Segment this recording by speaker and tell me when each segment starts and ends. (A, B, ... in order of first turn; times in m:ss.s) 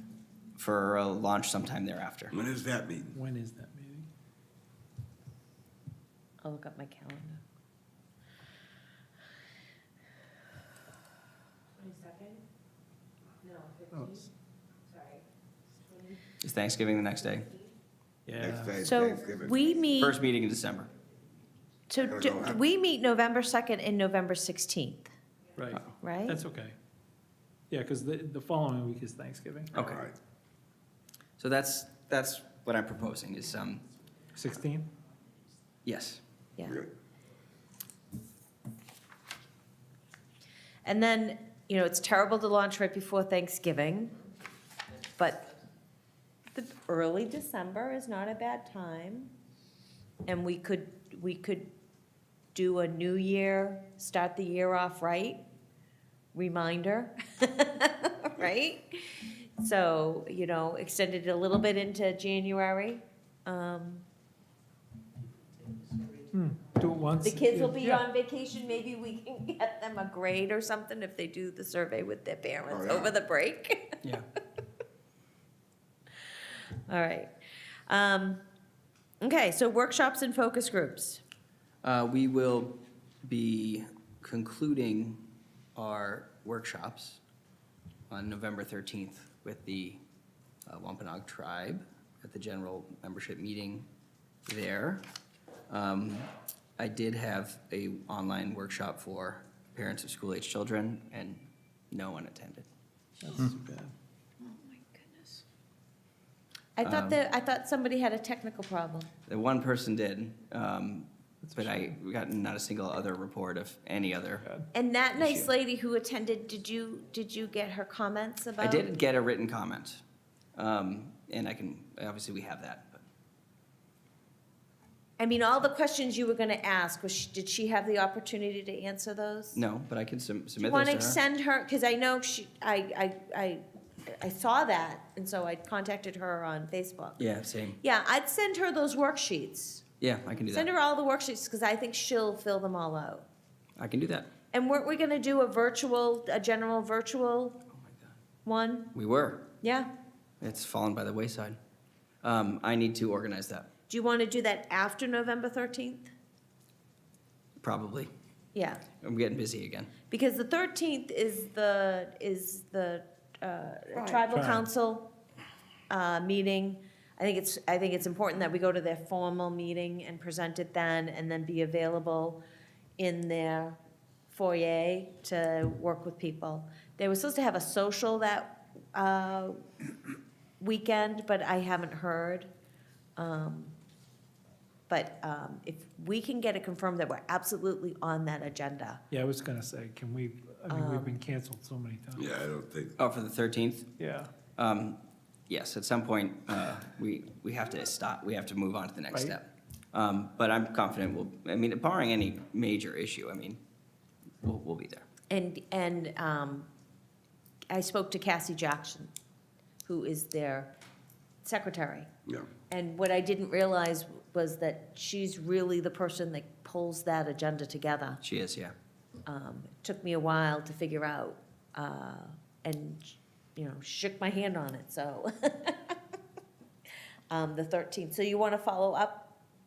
0:00.6-0:02.3 A
0:02.3-0:03.2 B
0:03.1-0:04.1 C
0:06.4-0:07.4 D
0:13.9-0:14.2 C
0:16.4-0:17.6 A
0:18.3-0:18.9 C
0:18.4-0:19.6 B
0:18.8-0:20.2 D
0:20.0-0:20.9 A
0:21.9-0:25.1 D
0:22.0-0:22.6 B
0:25.6-0:26.8 C
0:26.0-0:26.4 D
0:27.7-0:29.7 C
0:29.7-0:30.1 A
0:29.8-0:30.1 B
0:31.4-0:33.9 A
0:34.4-0:34.9 C
0:35.8-0:36.2 A
0:40.8-0:44.1 D
0:45.2-0:45.5 D
0:46.5-0:49.3 D
0:50.3-0:51.7 D
0:52.5-0:55.4 D
0:56.3-1:04.1 D
1:06.3-1:08.0 C
1:07.2-1:14.0 D
1:12.7-1:13.2 B
1:16.9-1:17.3 D
1:17.9-1:18.4 D
1:19.2-1:21.2 D
1:21.8-1:25.2 A
1:25.8-1:27.2 A
1:28.1-1:30.0 A
1:30.7-1:33.9 A
1:34.5-1:35.0 A
1:35.7-1:42.7 A
1:43.2-1:43.9 C
1:44.4-1:45.4 D
1:46.8-1:49.1 D
1:46.8-1:47.2 A
1:49.3-1:54.4 A
1:51.5-1:51.9 C
1:54.7-1:58.9 D
1:55.2-1:55.5 A
1:58.6-2:00.0 A
2:00.6-2:03.0 A
2:05.2-2:09.6 D
2:09.6-2:11.2 A
2:10.6-2:17.2 D
2:17.2-2:17.8 A
2:17.8-2:19.8 D
2:20.0-2:20.7 A
2:20.5-2:23.2 D
2:23.8-2:24.3 A
2:24.5-2:27.6 D
2:27.7-2:28.2 A
2:28.4-2:28.9 D
2:28.9-2:29.4 A
2:29.6-2:29.9 D
2:30.4-2:31.6 A
2:32.2-2:33.7 A
2:33.9-2:36.1 D
2:37.6-2:38.1 A
2:38.6-2:38.8 D
2:39.0-2:39.9 A
2:40.1-2:45.1 D
2:44.3-2:44.7 C
2:45.9-2:52.4 D
2:53.0-2:53.8 D
2:54.3-2:59.6 D
3:00.6-3:02.5 D
3:03.2-3:03.7 D
3:04.9-3:09.0 D
3:09.1-3:12.3 C
3:10.7-3:11.2 D
3:12.2-3:13.0 B
3:13.0-3:13.9 A
3:14.0-3:14.3 C
3:14.6-3:15.0 A
3:15.5-3:23.6 A
3:24.4-3:25.1 A
3:25.3-3:26.7 D
3:27.7-3:29.1 D
3:29.8-3:30.7 D
3:31.4-3:32.1 D
3:32.7-3:38.2 D
3:38.2-3:38.7 A
3:39.3-3:46.0 D
3:47.3-3:49.3 D